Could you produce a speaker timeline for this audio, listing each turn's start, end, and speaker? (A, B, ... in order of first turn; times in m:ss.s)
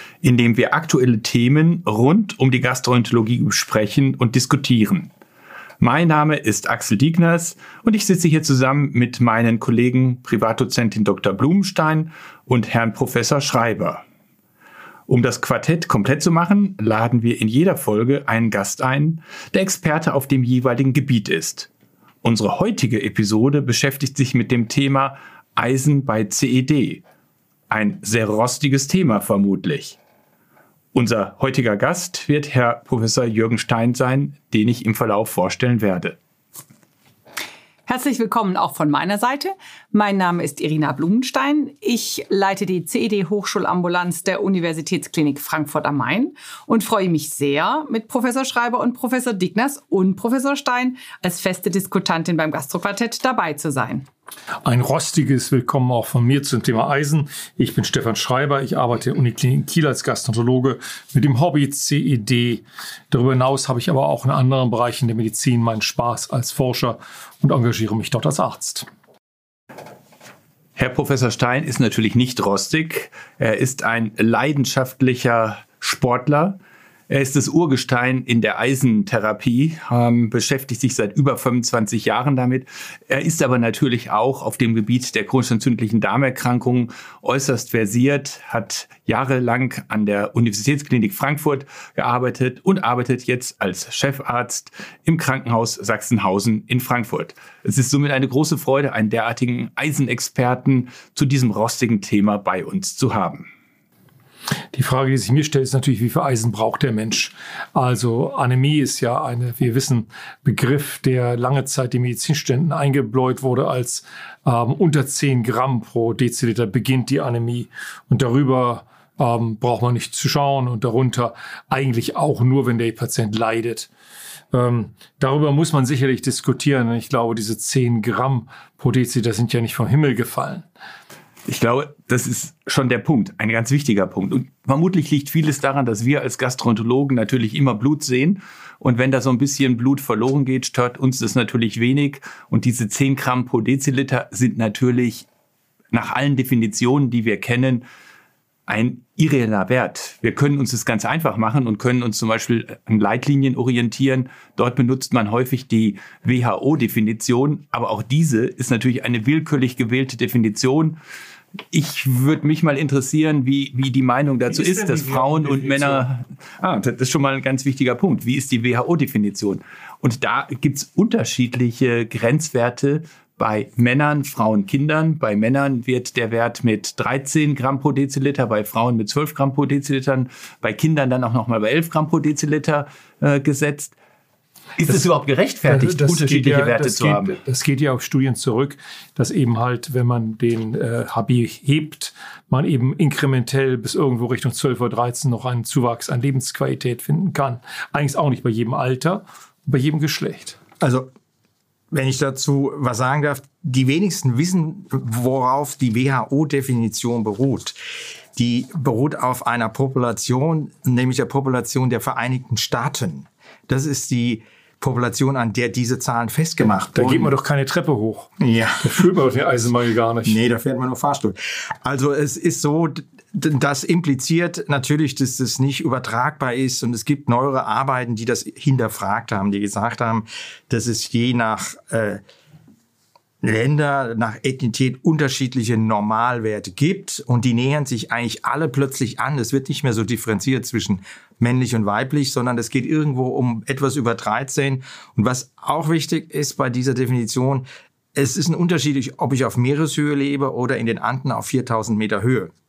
0:00.2-0:05.1 A
0:05.8-0:14.0 A
0:15.1-0:21.7 A
0:22.2-0:27.0 A
0:27.7-0:30.0 A
0:30.9-0:36.2 A
0:37.9-0:54.0 B
0:54.6-1:08.9 C
1:10.8-1:16.6 A
1:17.1-1:43.5 A
1:44.7-2:03.9 C
2:04.5-2:10.6 C
2:11.5-2:25.3 A
2:25.9-2:27.8 A
2:28.7-2:41.0 A
2:41.7-3:03.9 A
2:44.5-2:46.1 C
3:04.8-3:07.4 A
3:05.7-3:20.6 C
3:20.8-3:21.1 D
3:21.9-3:27.8 D
3:28.4-3:37.3 D
3:36.9-3:40.4 C
3:38.4-3:39.0 D
3:40.2-3:52.2 D
3:53.4-4:12.5 D